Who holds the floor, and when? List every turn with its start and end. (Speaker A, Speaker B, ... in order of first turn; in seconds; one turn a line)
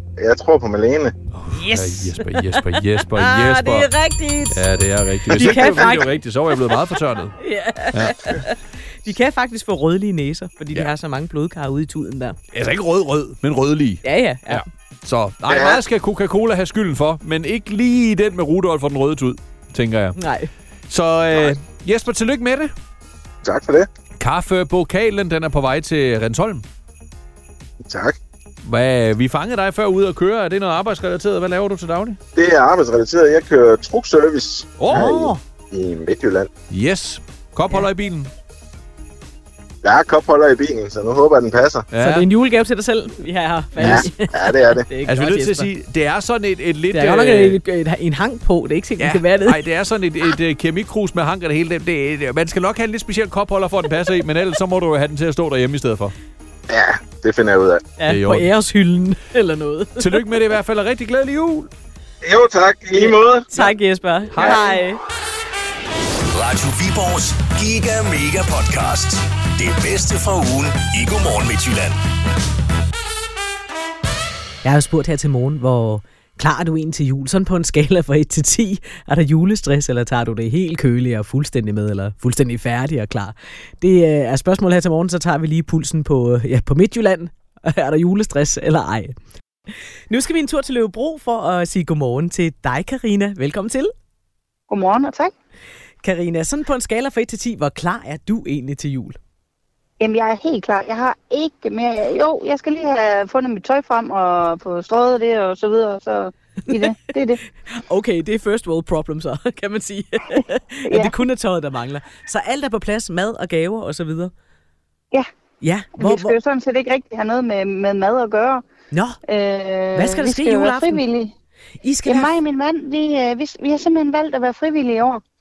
Speaker A: 0.2-1.1
Speaker B: 1.3-3.9
Speaker C: 1.5-4.7
Speaker B: 4.5-7.4
Speaker C: 5.3-12.4
Speaker A: 5.3-6.0
Speaker B: 7.9-8.4
Speaker B: 12.5-20.2
Speaker C: 14.0-14.6
Speaker A: 15.5-15.8
Speaker C: 20.1-20.5
Speaker B: 20.9-22.7
Speaker A: 23.4-23.9
Speaker B: 24.2-26.6
Speaker A: 27.8-28.2
Speaker B: 28.6-32.2
Speaker A: 32.3-36.5
Speaker B: 34.8-35.1
Speaker C: 34.9-35.4
Speaker B: 36.7-38.3
Speaker A: 39.8-41.9
Speaker B: 41.9-42.3
Speaker C: 42.0-45.7
Speaker A: 43.8-44.9
Speaker B: 43.8-44.1
Speaker B: 45.0-47.6
Speaker C: 46.9-49.6
Speaker B: 49.0-56.1
Speaker A: 56.7-57.8
Speaker C: 58.0-60.4
Speaker B: 58.1-58.5
Speaker B: 60.0-61.7
Speaker A: 62.2-63.5
Speaker C: 63.0-65.0
Speaker B: 64.3-64.7
Speaker D: 66.3-72.0
Speaker C: 74.6-89.2
Speaker C: 90.1-93.9
Speaker E: 94.7-95.3
Speaker C: 96.0-99.2
Speaker E: 100.0-107.4
Speaker C: 107.7-114.3
Speaker E: 110.9-111.1
Speaker C: 115.6-116.3
Speaker E: 116.0-118.6
Speaker C: 118.9-119.2
Speaker E: 119.3-121.3
Speaker C: 119.9-121.0
Speaker C: 121.8-122.3
Speaker E: 122.0-125.2